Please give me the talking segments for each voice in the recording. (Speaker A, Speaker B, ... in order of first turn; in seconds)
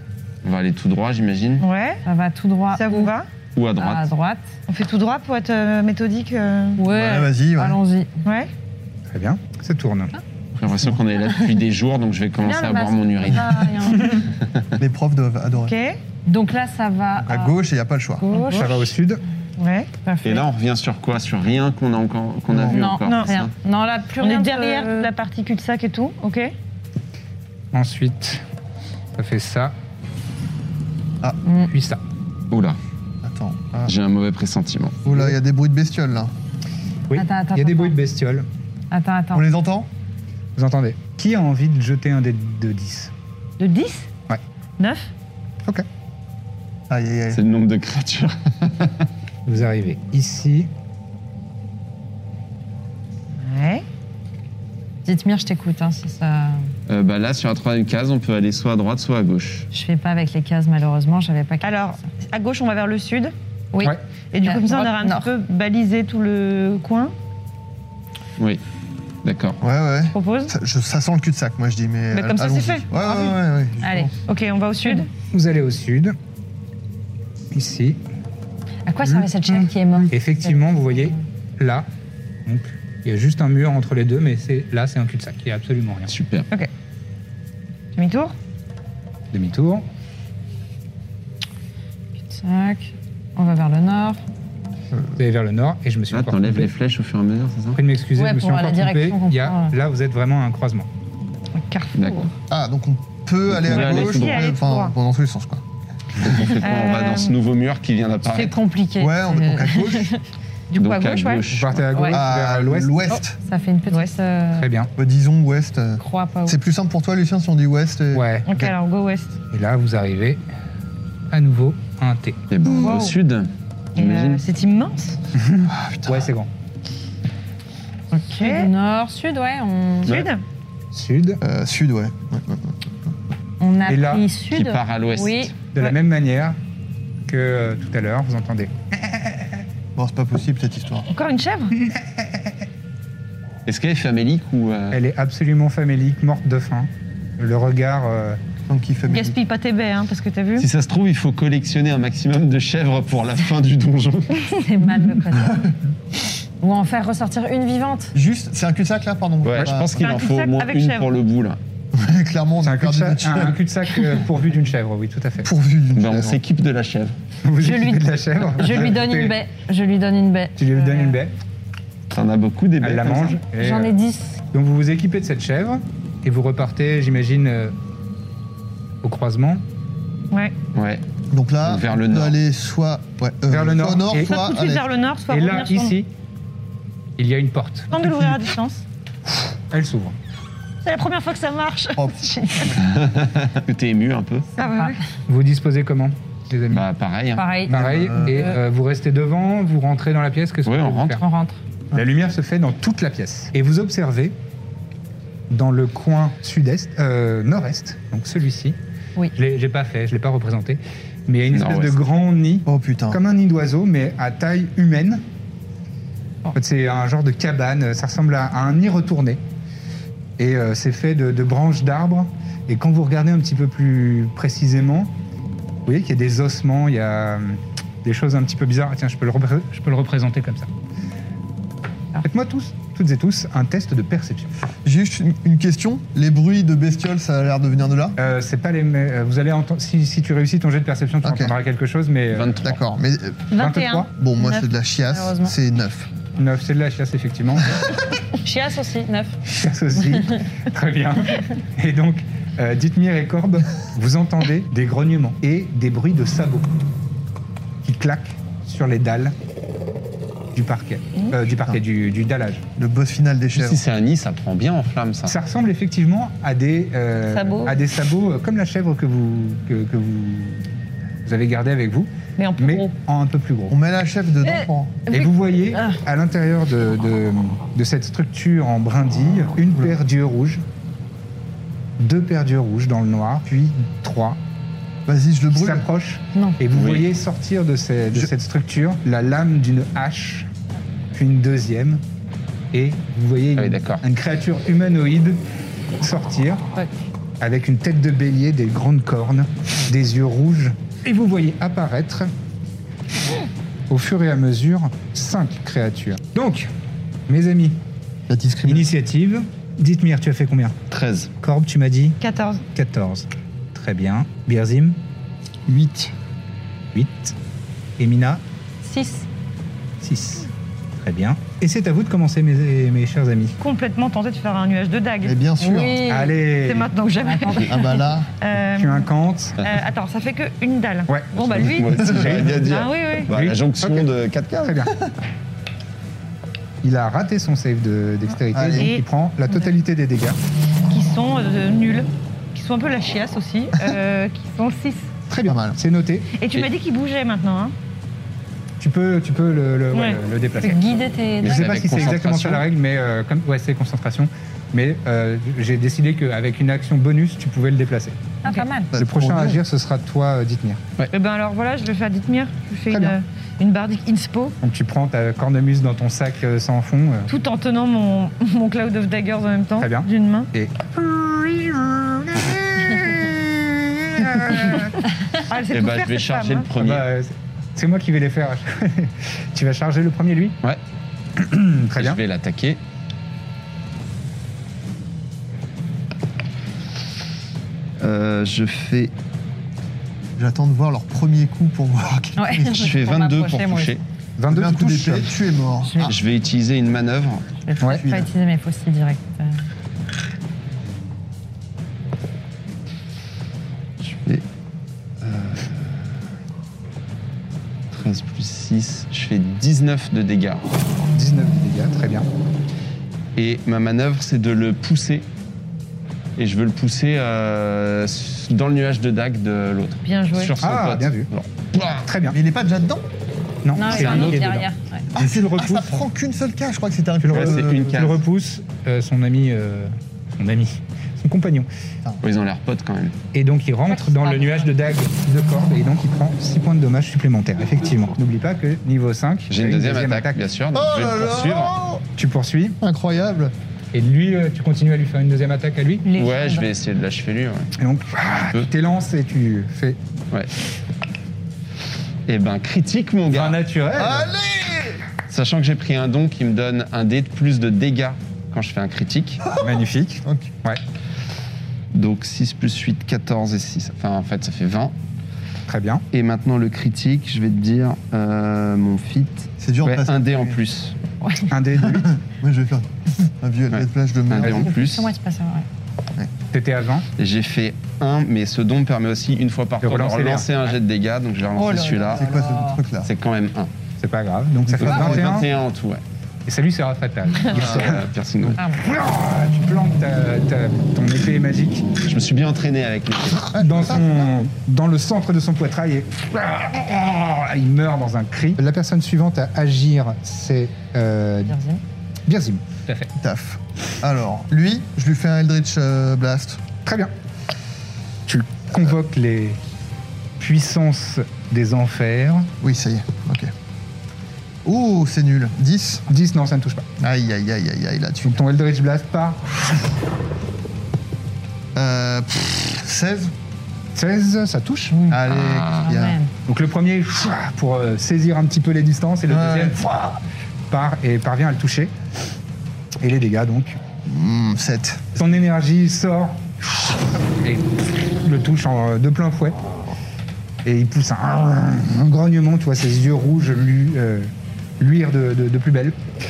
Speaker A: 0.4-1.6, 3.5-4.1, 10.6-13.7, 20.2-23.5, 32.5-32.8, 33.9-35.0, 47.3-49.0, 56.9-59.7, 69.2-69.6, 86.1-86.5, 96.1-97.8, 101.9-102.3, 103.5-104.4, 106.2-108.6, 110.8-111.9, 122.5-124.4, 134.5-135.6, 143.7-145.0, 150.6-154.5, 159.4-161.6, 165.9-167.1, 172.1-173.4, 180.7-181.0, 181.6-182.4, 192.8-194.5, 196.7-197.4, 200.6-201.2, 211.5-212.0, 242.3-242.8, 263.5-265.3, 286.7-287.1, 293.6-294.0, 310.9-311.3, 331.4-334.8, 351.4-352.6, 375.7-377.1, 381.9-382.8, 388.0-389.1, 392.7-394.0, 396.0-397.4, 404.0-404.4, 405.2-406.1, 407.9-410.6, 413.4-415.2, 416.4-422.1, 423.9-424.4, 427.3-428.2, 432.2-433.1, 439.5-441.7, 446.1-447.7, 452.3-453.6, 455.3-459.4, 461.9-464.9, 466.1-471.0, 473.7-475.1, 477.2-482.2, 483.0-483.7, 484.8-486.0, 487.5-488.6, 492.0-493.6, 525.3-525.9
Speaker B: 1.6-2.0, 2.7-3.3, 4.7-6.8, 8.2-8.5, 15.6-16.0, 18.3-18.6, 19.6-20.0, 23.0-23.3, 24.2-26.5, 43.6-44.0, 44.8-45.1, 53.4-53.8, 61.6-63.3, 64.3-67.1, 70.1-70.5, 72.1-73.4, 74.2-75.1, 87.9-88.3, 101.6-102.3, 103.7-104.9, 106.3-107.3, 110.7-111.4, 113.9-114.2, 118.5-119.4, 122.7-123.1, 124.0-125.2, 128.1-128.7, 130.1-130.4, 141.1-141.7, 149.1-150.7, 160.0-161.1, 184.2-185.9, 187.9-188.8, 190.8-192.8, 194.6-195.0, 267.3-267.8, 272.4-272.9, 312.2-312.6, 323.6-325.4, 326.5-329.1, 329.6-333.3, 338.7-339.0, 340.9-345.1, 346.4-347.7, 349.9-350.2, 361.1-364.6, 367.3-370.5, 375.5-376.7, 420.0-420.5
Speaker C: 2.0-3.1, 3.8-4.5, 6.8-8.1, 12.4-14.2, 16.2-17.5, 18.2-18.6, 20.1-20.4, 22.6-25.1, 31.4-31.7, 37.1-38.0, 38.9-39.5, 55.0-56.7, 59.7-61.7, 63.7-65.3, 73.8-74.1, 74.8-75.0, 78.8-81.2, 92.3-94.2, 98.2-99.8, 108.2-110.2, 111.9-112.2, 113.1-114.7, 116.0-116.6, 128.3-130.1, 133.6-135.5, 154.6-155.6, 156.6-158.1, 167.6-171.2, 173.5-174.4, 194.6-194.9, 197.3-198.5, 201.1-201.6, 243.5-245.5, 248.4-249.4, 274.4-276.0, 318.8-319.3, 325.6-326.3, 327.2-328.0, 350.6-352.1, 358.4-358.9, 392.4-393.9, 395.8-396.1, 397.6-399.6, 423.7-425.1, 433.9-434.7, 446.0-446.7, 471.2-471.5, 474.4-475.6, 481.5-482.8, 501.5-501.8, 524.9-525.2, 525.8-526.3
Speaker D: 6.9-7.8, 10.6-11.0, 14.8-15.7, 17.2-18.9, 33.2-33.9, 35.0-36.3, 39.3-39.9, 46.9-47.4, 69.6-74.2, 102.5-105.6, 109.0-110.1, 112.1-113.3, 115.0-118.7, 125.7-126.3, 131.4-133.1, 139.9-141.1, 148.7-149.4, 155.3-155.7, 158.1-160.0, 161.9-163.5, 165.4-166.4, 181.3-184.9, 192.0-192.8, 197.7-198.5, 212.7-213.2, 234.8-238.2, 241.2-241.5, 242.6-243.5, 244.1-246.1, 262.8-263.8, 273.7-275.0, 285.1-285.9, 308.3-308.9, 315.7-316.1, 325.2-326.0, 327.7-328.3, 331.9-332.5, 338.5-338.9, 345.4-345.8, 358.9-359.6, 390.4-392.9, 394.5-396.2, 397.8-398.3, 422.3-423.0, 425.1-428.1, 440.7-442.0, 442.8-443.5, 453.9-455.0, 459.4-460.5, 469.6-470.6, 471.8-474.7, 482.1-483.1, 484.8-485.3, 487.5-488.0, 493.5-494.3, 503.1-506.6, 512.6-513.5, 514.6-516.0, 517.0-518.4, 521.7-523.3, 525.1-526.2, 529.3-530.2, 534.0-535.1
Speaker E: 9.1-10.1, 18.4-19.2, 27.7-28.4, 29.1-29.8, 31.7-32.0, 37.1-38.5, 40.5-43.1, 49.5-50.7, 75.3-76.2, 77.5-78.0, 79.0-81.9, 82.4-86.1, 89.3-89.8, 95.2-96.7, 97.7-100.9, 111.5-113.1, 114.5-114.9, 118.1-118.5, 119.5-120.4, 121.3-122.4, 125.3-126.5, 130.9-131.4, 133.9-134.2, 135.7-136.6, 137.2-139.4, 142.0-142.3, 144.9-148.4, 162.6-165.5, 167.4-169.3, 170.6-171.3, 172.8-174.0, 174.5-177.7, 179.0-179.6, 183.5-184.4, 185.3-186.1, 187.2-188.0, 189.7-190.2, 195.3-196.8, 197.7-201.2, 201.9-204.3, 205.5-208.8, 209.3-215.2, 216.5-219.4, 220.4-225.1, 225.8-230.7, 232.2-234.5, 238.2-242.7, 243.6-244.1, 246.3-247.7, 249.4-256.7, 257.8-259.3, 260.5-262.6, 265.2-270.7, 271.2-273.8, 275.1-280.6, 282.0-284.4, 285.5-290.5, 291.1-292.0, 292.7-295.4, 296.0-296.6, 297.4-302.3, 303.9-306.7, 307.3-307.8, 308.6-310.7, 311.4-312.2, 312.7-315.0, 316.9-317.3, 318.0-318.4, 320.0-323.6, 326.1-326.9, 328.7-329.6, 333.3-334.9, 336.8-340.4, 345.3-346.3, 348.8-358.2, 358.9-360.8, 362.9-363.1, 364.6-367.3, 369.8-374.9, 376.8-380.6, 381.4-382.2, 394.4-395.4, 411.1-412.3, 420.6-421.3, 422.0-422.4, 423.6-426.1, 427.2-431.7, 433.3-440.4, 442.1-442.8, 443.9-446.1, 447.8-450.0, 453.3-454.3, 459.6-460.8, 465.7-466.0, 471.5-472.1, 476.5-477.1, 479.8-480.7, 484.0-485.5, 486.4-491.9, 493.6-501.5, 502.3-503.1, 506.8-507.1, 508.3-509.6, 510.4-512.5, 516.1-516.9, 518.2-519.6, 523.9-525.0, 526.5-529.8, 530.7-531.9, 533.0-533.8, 535.1-536.5, 537.4-539.6, 540.6-546.0